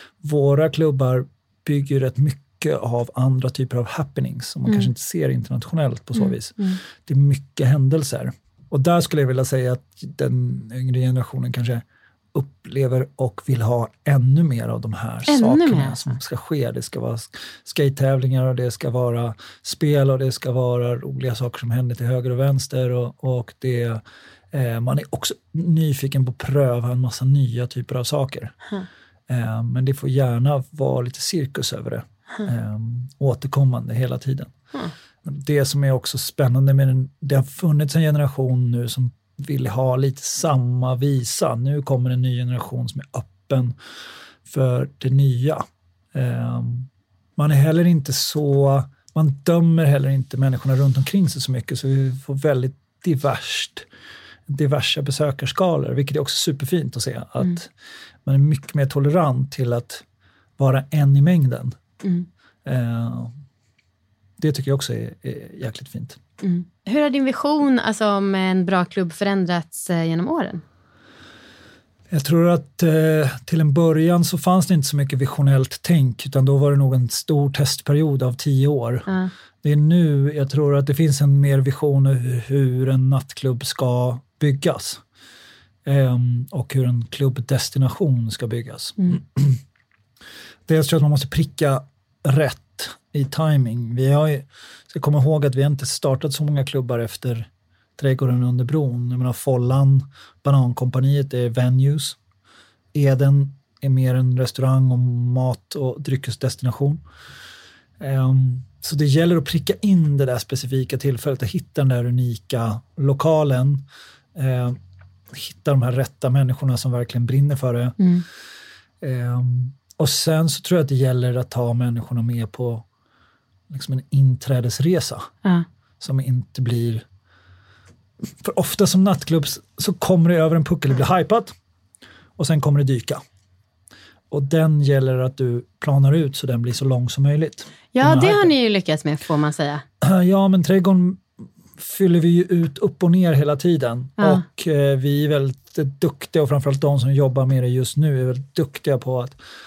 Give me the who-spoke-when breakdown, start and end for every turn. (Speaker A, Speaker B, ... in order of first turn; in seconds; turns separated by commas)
Speaker A: 0.2-28.5, Speaker B: 6.1-6.8, Speaker B: 15.3-16.1, Speaker A: 29.3-34.5, Speaker A: 35.2-43.8, Speaker A: 44.5-53.9, Speaker A: 54.5-57.7, Speaker A: 58.2-60.0, Speaker A: 60.6-61.8, Speaker A: 62.6-63.4, Speaker A: 64.4-66.2, Speaker B: 66.4-70.6, Speaker A: 72.1-79.1, Speaker B: 79.1-79.3, Speaker A: 79.6-85.0, Speaker A: 85.8-89.6, Speaker A: 90.7-102.2, Speaker A: 102.9-107.0, Speaker A: 108.0-114.8, Speaker A: 115.3-118.0, Speaker B: 118.0-118.2, Speaker A: 119.0-122.8, Speaker A: 123.7-125.3, Speaker A: 126.0-127.0, Speaker A: 128.4-131.5, Speaker A: 132.4-133.2, Speaker A: 134.3-138.5, Speaker B: 137.9-139.8, Speaker A: 140.0-141.2, Speaker A: 141.8-149.4